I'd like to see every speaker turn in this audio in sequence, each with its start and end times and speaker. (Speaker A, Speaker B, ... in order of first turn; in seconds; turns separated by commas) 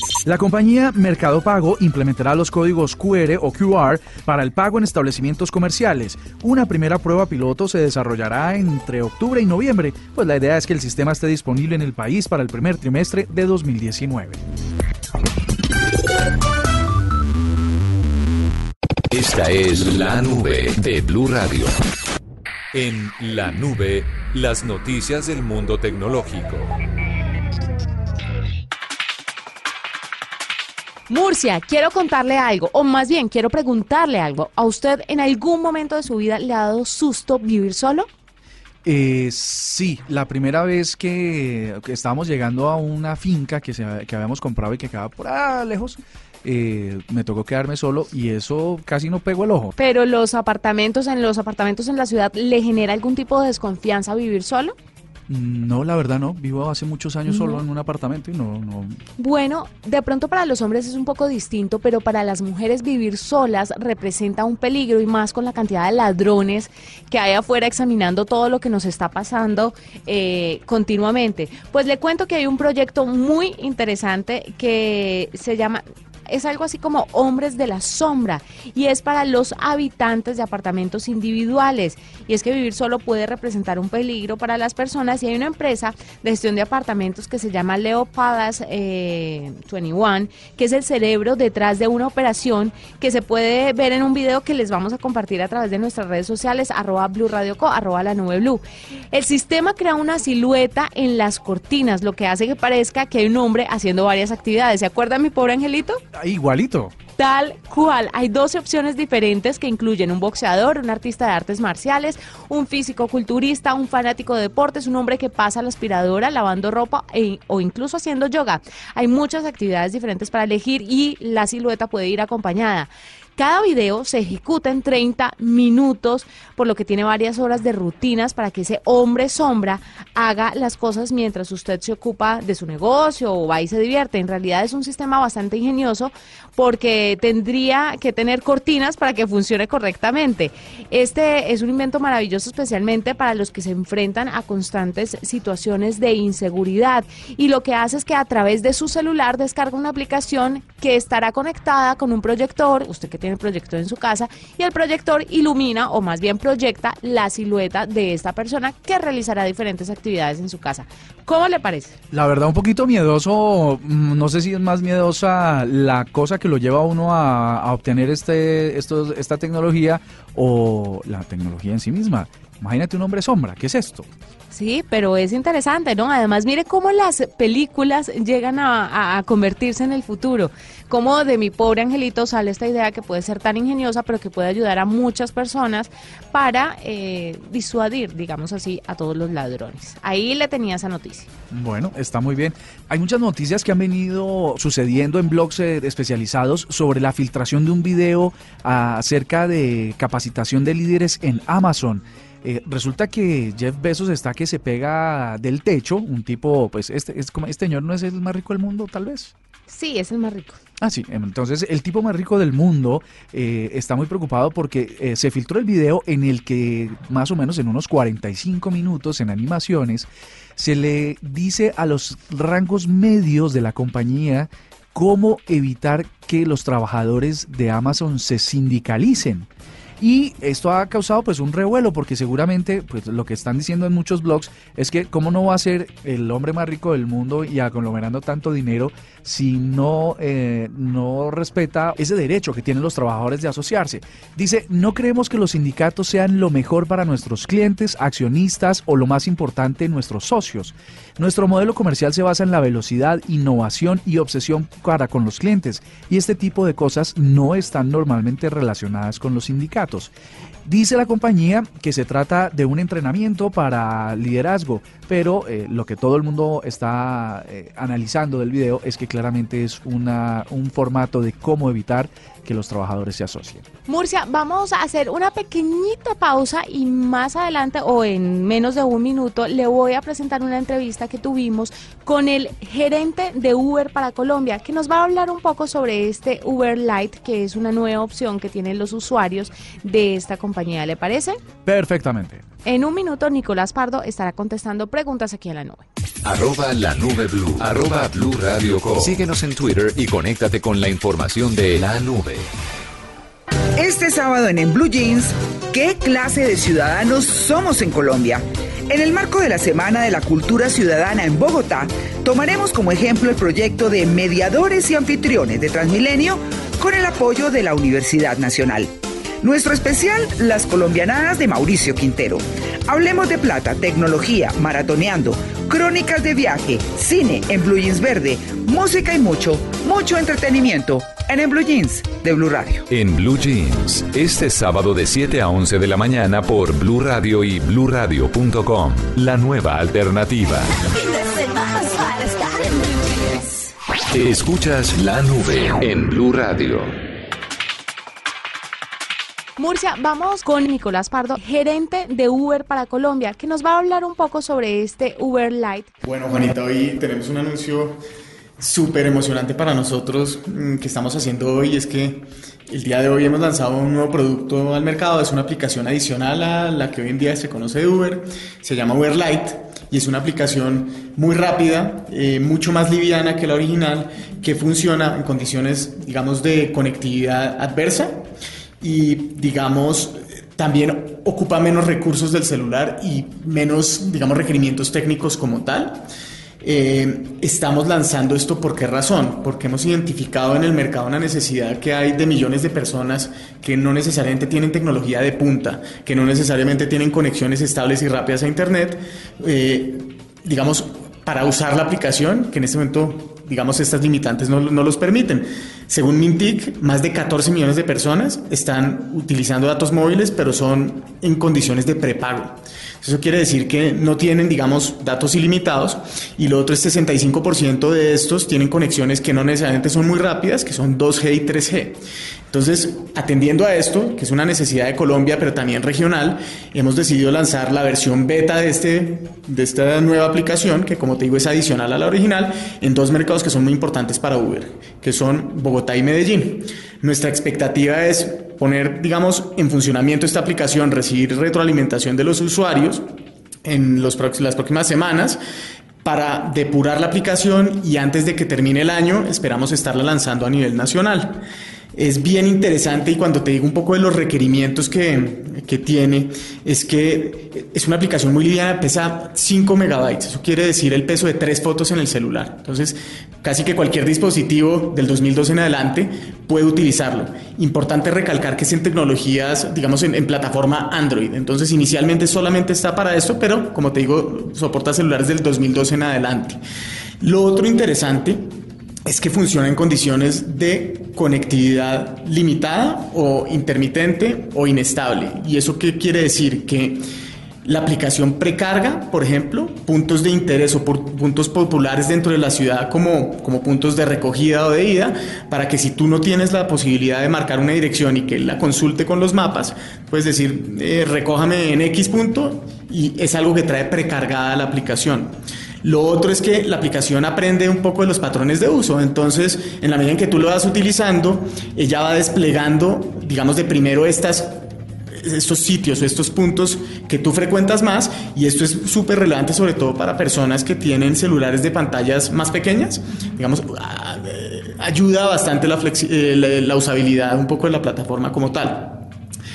Speaker A: 0.2-14.4, Speaker B: 19.1-21.7, Speaker B: 22.7-26.8, Speaker C: 31.1-38.1, Speaker A: 38.9-49.7, Speaker C: 49.8-54.8, Speaker A: 55.3-59.0, Speaker C: 57.3-57.6, Speaker C: 59.2-106.0, Speaker A: 106.1-106.9, Speaker C: 107.2-161.9, Speaker A: 162.1-174.1, Speaker C: 174.5-191.3, Speaker A: 191.5-209.3, Speaker C: 209.7-210.6, Speaker A: 210.8-229.5, Speaker A: 230.0-260.1, Speaker A: 260.6-273.7, Speaker C: 273.9-291.4, Speaker A: 291.7-292.4, Speaker C: 292.6-295.9, Speaker B: 296.2-302.5, Speaker D: 303.8-332.9, Speaker B: 332.9-340.9, Speaker C: 341.0-343.4, Speaker B: 344.1-346.9, Speaker C: 349.6-355.9, Speaker E: 356.0-358.0, Speaker E: 358.6-378.2, Speaker E: 378.8-386.1, Speaker E: 386.6-422.0, Speaker E: 422.5-443.0, Speaker E: 443.6-445.4, Speaker E: 446.0-451.4, Speaker E: 451.9-476.6, Speaker E: 477.2-487.0, Speaker E: 487.6-529.1